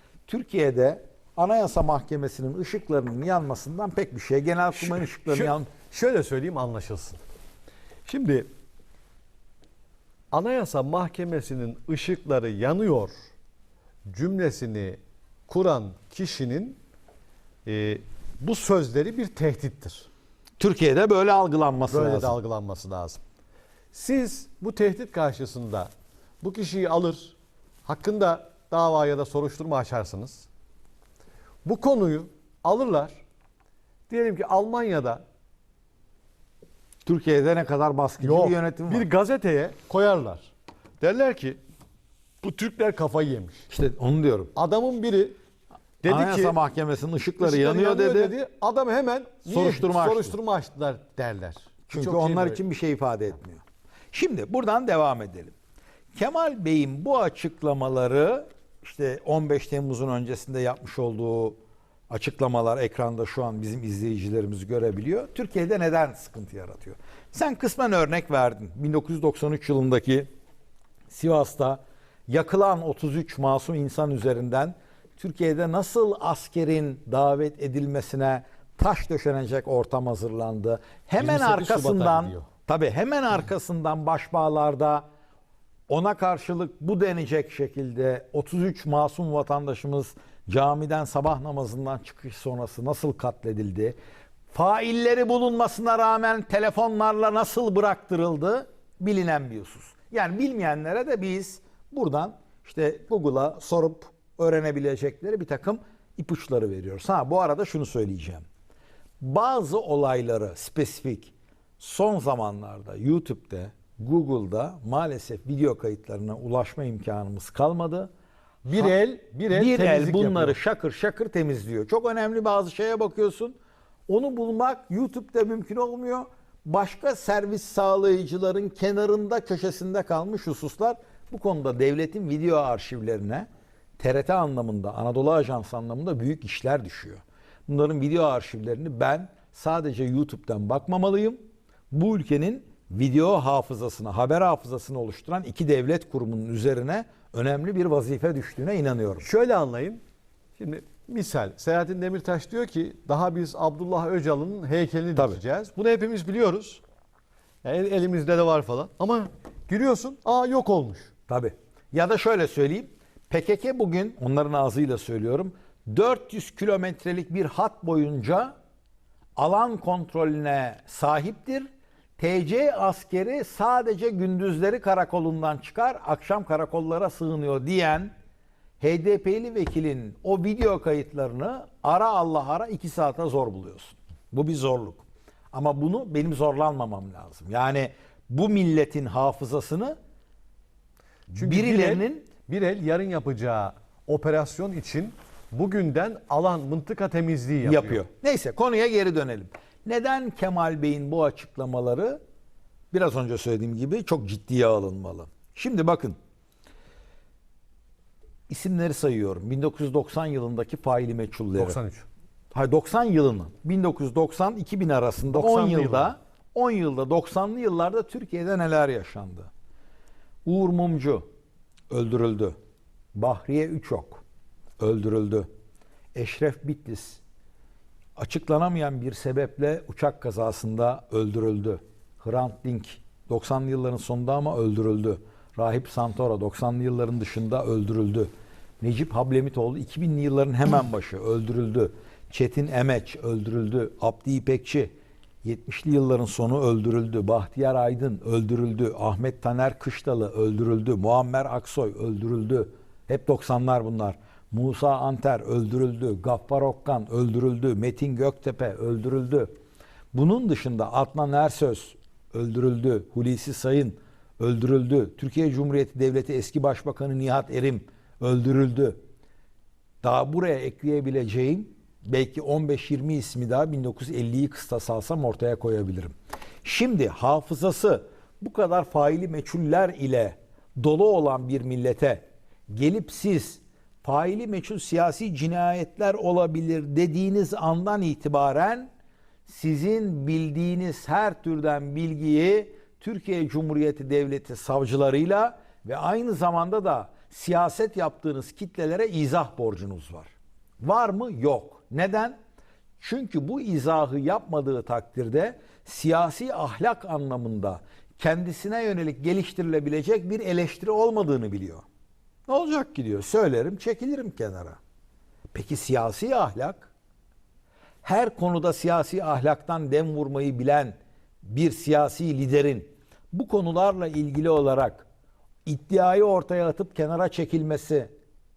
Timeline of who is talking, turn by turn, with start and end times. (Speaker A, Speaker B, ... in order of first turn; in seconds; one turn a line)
Speaker A: 0.3-5.7
Speaker B: 4.8-7.2
Speaker B: 8.1-8.5
Speaker B: 10.3-13.1
Speaker B: 14.1-16.8
Speaker B: 17.7-20.1
Speaker A: 20.6-22.4
Speaker B: 21.9-23.2
Speaker B: 23.9-30.5
Speaker B: 31.6-33.2
Speaker B: 34.1-35.2
Speaker A: 37.0-39.1
Speaker B: 38.2-40.5
Speaker B: 41.0-41.6
Speaker B: 42.4-43.6
Speaker A: 43.7-44.5
Speaker B: 44.5-45.4
Speaker B: 46.0-46.6
Speaker A: 46.1-48.4
Speaker B: 47.4-52.6
Speaker A: 49.5-50.4
Speaker A: 51.9-53.6
Speaker A: 54.1-55.5
Speaker A: 56.1-61.6
Speaker A: 62.1-70.3
Speaker A: 71.1-85.0
Speaker B: 81.2-82.5
Speaker A: 85.9-94.0
Speaker A: 94.5-108.4
Speaker A: 109.2-118.1
Speaker B: 118.7-120.6
Speaker A: 119.5-123.6
Speaker A: 124.1-133.5
Speaker A: 134.0-141.4
Speaker A: 141.9-149.3
Speaker B: 149.2-150.0
Speaker B: 150.6-156.8
Speaker B: 157.6-161.1
Speaker A: 161.3-168.5
Speaker A: 169.4-178.1
Speaker A: 178.8-190.0
Speaker B: 191.3-198.0
Speaker A: 191.3-192.3
Speaker A: 197.6-202.2
Speaker A: 202.9-206.2
Speaker A: 208.5-211.8
Speaker B: 211.6-212.1
Speaker A: 212.5-219.5
Speaker B: 215.3-216.1
Speaker A: 220.5-221.2
Speaker A: 221.9-222.6
Speaker A: 223.2-224.2
Speaker A: 224.8-225.5
Speaker A: 226.2-227.2
Speaker A: 228.2-244.9
Speaker A: 245.4-259.5
Speaker A: 260.1-269.0
Speaker A: 270.0-288.9
Speaker A: 289.5-302.4
Speaker A: 303.0-311.9
Speaker A: 312.5-314.8
Speaker A: 315.5-316.9
Speaker A: 318.0-325.1
Speaker A: 325.7-328.1